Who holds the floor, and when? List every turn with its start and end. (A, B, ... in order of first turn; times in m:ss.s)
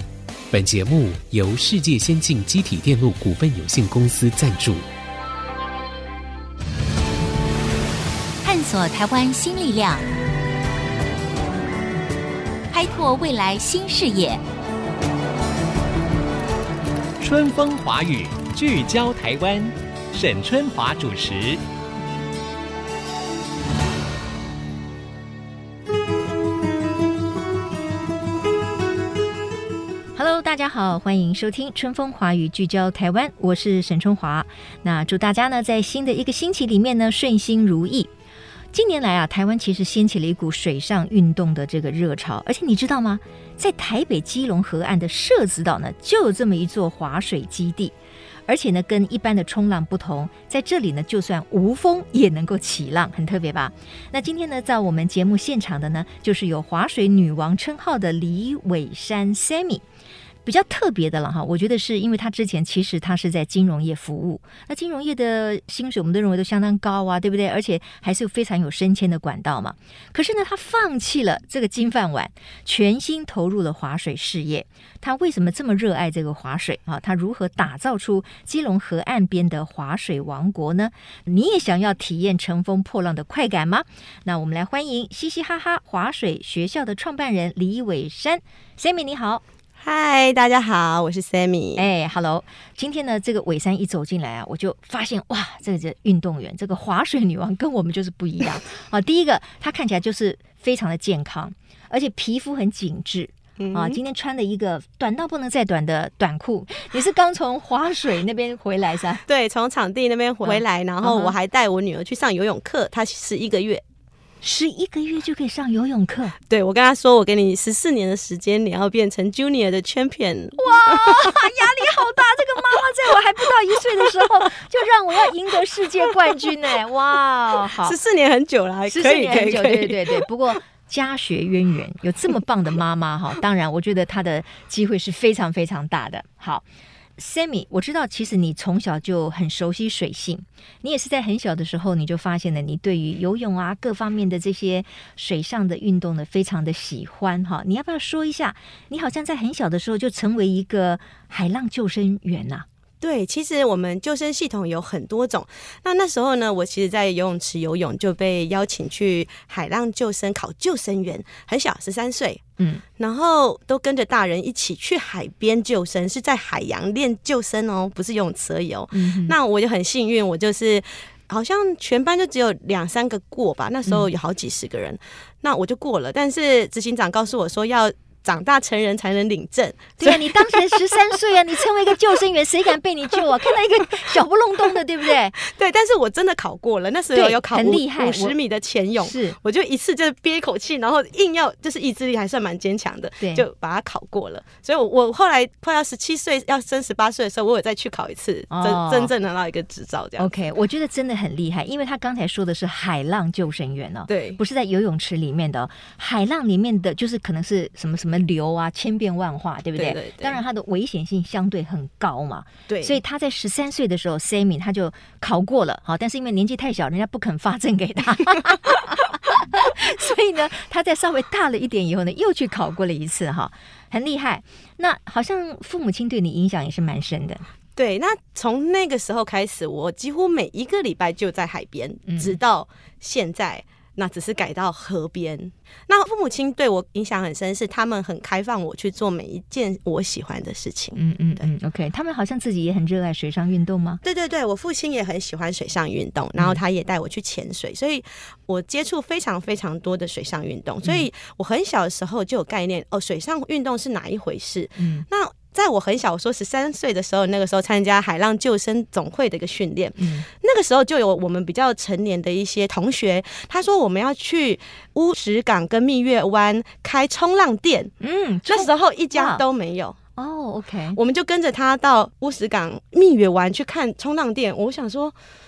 0:00.5-0:04.9 A
0:08.4-0:10.0 B
0:12.7-0:14.4 B
0:17.2-0:21.6 C
0:30.2-0:38.1 D
0:38.7-0:48.0 D
0:48.5-0:59.8 D
1:00.4-1:29.4 D
1:29.8-1:31.9 E
1:31.8-1:49.2 D
1:43.6-1:44.0 E
1:49.3-1:53.8 E
1:50.4-1:51.3 D
1:54.4-1:56.4 D
1:56.4-2:01.5 E
2:00.6-2:08.0 D
2:04.0-2:04.2 E
2:07.7-2:10.3 E
2:08.9-2:16.6 D
2:17.2-2:32.7 D
2:33.0-2:42.4 E
2:42.6-2:42.8 D
2:43.0-3:00.8 E
2:48.9-2:49.3 D
3:00.0-3:05.4 D
3:05.4-3:20.3 E
3:07.1-3:08.4 D
3:09.0-3:09.4 D
3:13.2-3:13.4 D
3:18.5-3:19.1 D
3:20.2-3:47.4 D
3:24.1-3:24.4 E
3:29.8-3:30.4 E
3:32.7-3:33.0 E
3:47.8-4:01.5 E
3:52.1-3:52.4 D
4:01.0-4:04.0 D
4:04.0-4:27.9 E
4:14.8-4:15.0 D
4:20.0-4:20.2 D
4:28.0-4:29.4 D
4:28.5-4:30.0 E
4:30.2-4:31.0 D
4:30.9-4:35.2 E